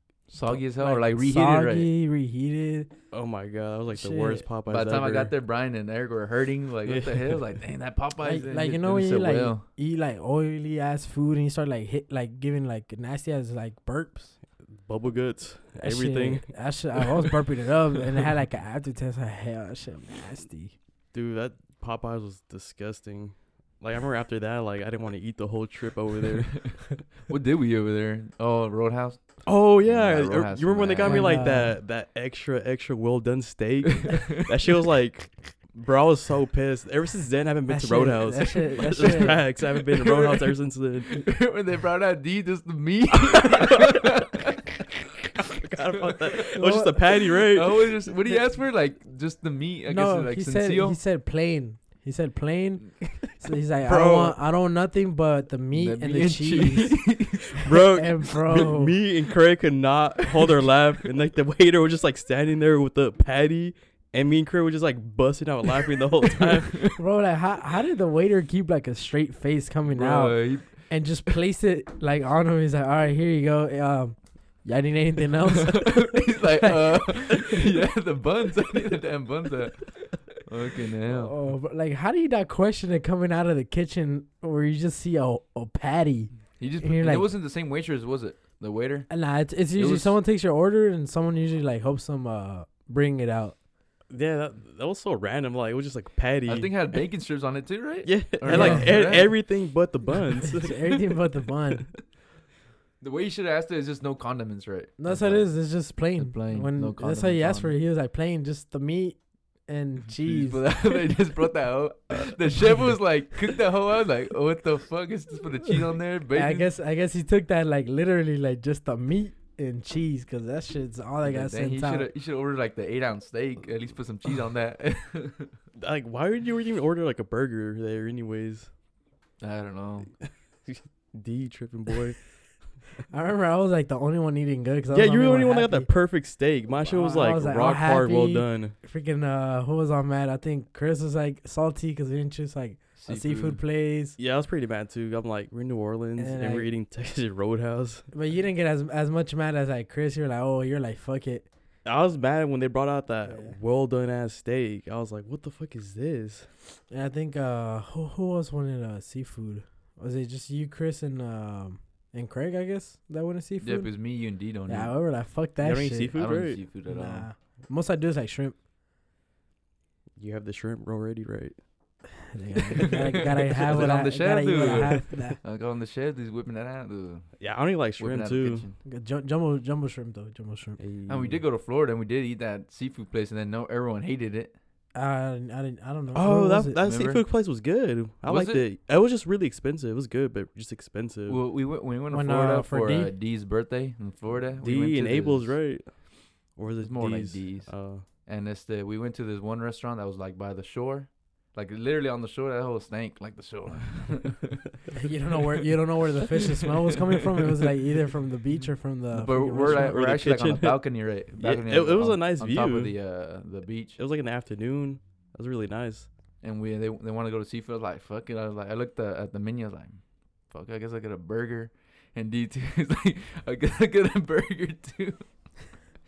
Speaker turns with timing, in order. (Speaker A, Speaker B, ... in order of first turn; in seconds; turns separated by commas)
Speaker A: 0.3-1.9, Speaker B: 0.3-2.9, Speaker C: 3.1-5.3, Speaker B: 3.9-4.4, Speaker A: 4.7-9.7, Speaker C: 6.8-7.4, Speaker B: 8.2-14.4, Speaker C: 14.7-17.4, Speaker B: 15.8-20.8, Speaker C: 21.1-26.8, Speaker A: 26.5-31.3, Speaker C: 29.4-41.3, Speaker B: 31.0-31.8, Speaker A: 33.9-34.5, Speaker B: 37.7-39.4, Speaker A: 39.7-40.5, Speaker A: 41.1-44.8, Speaker C: 43.2-44.1, Speaker C: 45.4-48.3, Speaker B: 46.6-47.0, Speaker A: 47.5-51.0, Speaker B: 49.9-59.0, Speaker C: 53.8-54.4, Speaker A: 55.7-57.6, Speaker C: 57.6-66.9, Speaker A: 66.4-66.9, Speaker B: 67.0-77.0, Speaker A: 69.9-70.9, Speaker A: 75.7-81.3, Speaker B: 81.1-87.3, Speaker A: 86.6-89.1, Speaker B: 89.1-93.6, Speaker A: 89.7-90.2, Speaker C: 94.1-96.8, Speaker A: 96.5-99.5, Speaker C: 98.0-101.2, Speaker B: 98.5-98.9, Speaker B: 100.5-101.9, Speaker A: 103.0-107.7, Speaker B: 105.0-110.7, Speaker A: 110.2-116.7, Speaker B: 116.3-122.1, Speaker A: 121.2-125.5, Speaker C: 125.8-128.7, Speaker A: 129.4-130.1, Speaker C: 130.7-132.2, Speaker B: 133.1-135.9, Speaker C: 134.9-138.8, Speaker B: 136.8-144.2, Speaker A: 143.0-143.6, Speaker C: 144.2-148.1, Speaker B: 146.2-146.7, Speaker B: 148.1-151.5, Speaker C: 151.8-156.5, Speaker B: 153.3-153.6, Speaker B: 156.9-164.0, Speaker A: 163.6-164.9, Speaker B: 164.7-166.2, Speaker C: 165.6-166.6, Speaker A: 166.2-167.3, Speaker B: 166.9-168.6, Speaker C: 170.2-171.6, Speaker B: 172.3-175.4, Speaker A: 172.9-177.3, Speaker C: 177.4-178.7, Speaker A: 178.0-178.8, Speaker B: 178.8-180.8, Speaker C: 180.8-181.4, Speaker A: 181.1-184.6, Speaker B: 184.9-186.8, Speaker C: 186.1-191.4, Speaker A: 186.8-187.3, Speaker A: 188.2-188.7, Speaker A: 191.3-195.6, Speaker B: 192.1-193.1, Speaker C: 194.6-195.9, Speaker C: 196.5-198.1, Speaker A: 196.8-204.7, Speaker B: 204.9-210.0, Speaker A: 209.1-214.0, Speaker C: 209.6-213.0, Speaker C: 214.0-216.1, Speaker A: 216.4-225.3